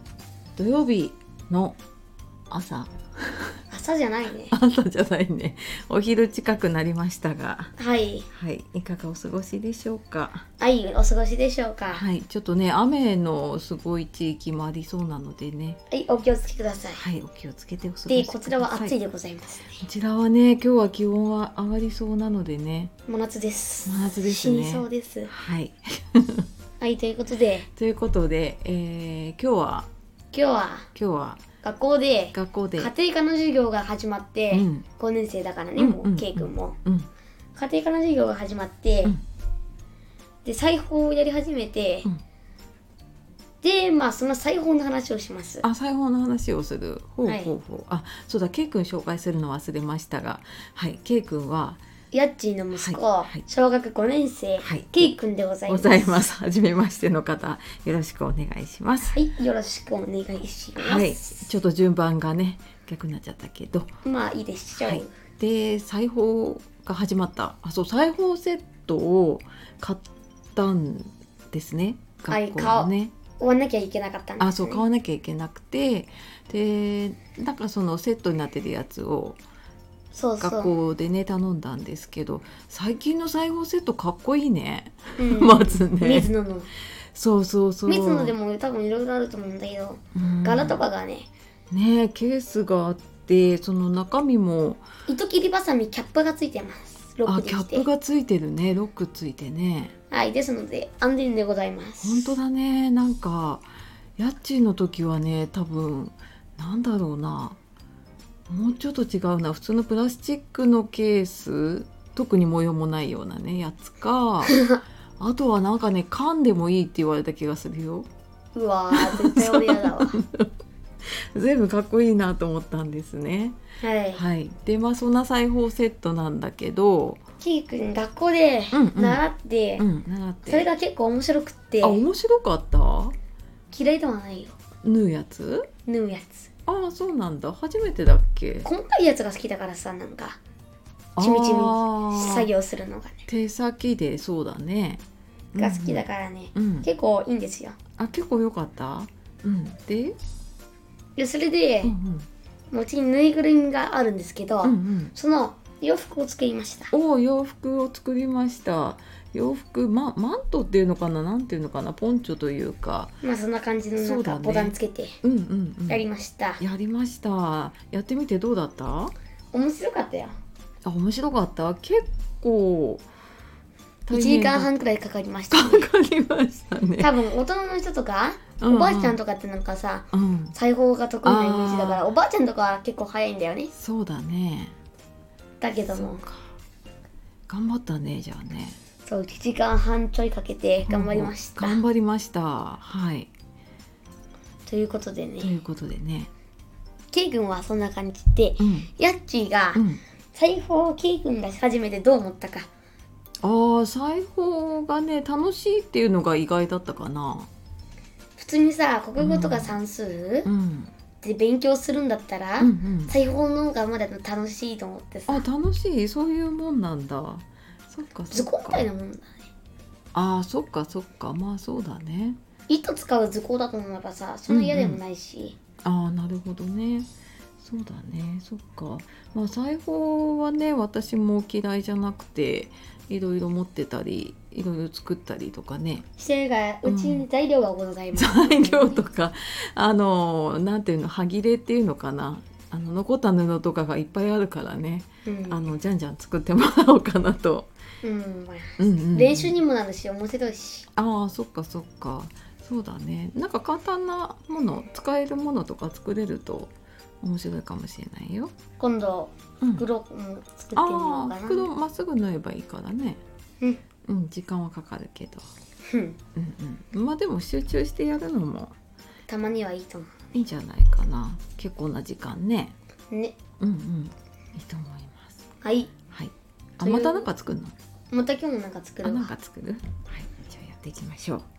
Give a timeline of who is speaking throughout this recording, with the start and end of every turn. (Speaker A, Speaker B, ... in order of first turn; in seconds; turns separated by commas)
Speaker A: 0.6-1.8, Speaker A: 2.5-3.5, Speaker B: 3.7-4.5, Speaker A: 4.5-7.7, Speaker B: 7.8-8.3, Speaker A: 8.3-10.4, Speaker B: 10.6-12.1, Speaker A: 11.9-15.8, Speaker B: 15.9-17.0, Speaker A: 16.9-18.9, Speaker B: 18.1-19.9, Speaker A: 19.8-22.9, Speaker B: 23.1-25.3, Speaker A: 23.9-26.5, Speaker B: 26.8-27.7, Speaker A: 27.8-29.9, Speaker B: 30.3-30.9, Speaker A: 30.9-31.4, Speaker B: 31.6-36.8, Speaker A: 32.3-32.9, Speaker A: 34.5-34.9, Speaker A: 35.8-37.1, Speaker B: 37.5-39.2, Speaker B: 40.5-42.1, Speaker B: 43.6-45.6, Speaker A: 45.6-51.8, Speaker B: 47.2-47.5, Speaker B: 52.1-56.2, Speaker A: 52.8-53.4, Speaker A: 54.6-55.1, Speaker A: 55.7-59.2, Speaker B: 59.1-61.5, Speaker A: 60.8-63.9, Speaker B: 64.0-65.1, Speaker A: 64.8-73.1, Speaker B: 72.3-74.8, Speaker A: 74.4-79.4, Speaker B: 80.1-80.8, Speaker A: 80.4-86.3, Speaker B: 85.2-86.7, Speaker A: 87.1-88.3, Speaker B: 87.9-91.3, Speaker A: 90.2-90.8, Speaker A: 91.7-94.8, Speaker B: 95.1-97.9, Speaker A: 97.3-99.9, Speaker B: 100.1-102.3, Speaker A: 102.0-107.6, Speaker A: 108.5-114.6, Speaker B: 114.5-114.8, Speaker A: 115.2-118.1, Speaker B: 118.5-120.2, Speaker A: 118.9-120.5, Speaker A: 121.0-123.6, Speaker B: 123.8-124.2, Speaker A: 124.1-127.2, Speaker B: 127.4-129.9, Speaker A: 128.7-129.2, Speaker A: 129.8-130.7, Speaker B: 130.5-132.0, Speaker A: 131.8-133.2, Speaker B: 133.7-134.6, Speaker A: 134.8-135.7, Speaker B: 135.9-136.5, Speaker A: 136.7-138.7, Speaker B: 138.7-140.4, Speaker A: 141.2-142.5, Speaker B: 141.2-143.2, Speaker A: 143.3-145.0, Speaker A: 145.5-146.0, Speaker B: 145.6-147.8, Speaker A: 146.6-146.9, Speaker A: 148.0-150.2, Speaker B: 151.2-151.9, Speaker A: 151.8-152.3, Speaker B: 152.7-156.9, Speaker A: 154.6-155.1, Speaker A: 156.9-163.2, Speaker B: 163.2-165.2, Speaker A: 164.0-166.1, Speaker B: 165.9-166.6, Speaker A: 166.6-169.1, Speaker B: 169.5-170.3, Speaker A: 170.8-173.0, Speaker A: 174.1-174.7, Speaker B: 174.1-175.9, Speaker A: 175.5-177.1, Speaker B: 177.0-183.7, Speaker A: 178.6-179.2, Speaker A: 180.1-180.6, Speaker A: 181.2-182.1, Speaker A: 183.8-184.8, Speaker B: 185.6-186.2, Speaker A: 185.9-186.5, Speaker A: 187.5-188.8, Speaker B: 189.1-191.8, Speaker A: 190.9-193.3, Speaker B: 194.7-195.5, Speaker A: 195.4-196.3, Speaker B: 197.1-199.8, Speaker A: 198.6-198.9, Speaker A: 199.8-200.0, Speaker B: 200.3-202.7, Speaker A: 203.4-207.5, Speaker B: 208.4-210.5, Speaker A: 209.2-209.8, Speaker A: 210.4-210.9, Speaker B: 211.2-215.4, Speaker A: 212.6-213.1, Speaker A: 215.3-218.8, Speaker B: 218.3-219.5, Speaker A: 220.1-222.4, Speaker B: 222.7-225.6, Speaker A: 224.5-225.0, Speaker A: 225.8-227.1, Speaker A: 227.6-236.1, Speaker B: 236.2-239.0, Speaker A: 236.8-237.2, Speaker A: 238.2-247.7, Speaker B: 245.2-245.6, Speaker B: 248.0-250.9, Speaker A: 248.8-249.6, Speaker A: 250.9-258.5, Speaker B: 258.8-261.7, Speaker A: 260.8-263.2, Speaker A: 264.1-265.5, Speaker B: 265.9-266.2, Speaker A: 266.4-268.8, Speaker B: 269.3-270.1, Speaker A: 270.3-272.8, Speaker B: 273.1-273.4, Speaker A: 273.6-275.4, Speaker B: 275.6-275.9, Speaker A: 276.1-277.8, Speaker B: 276.8-277.3, Speaker B: 278.1-279.3, Speaker A: 279.0-281.5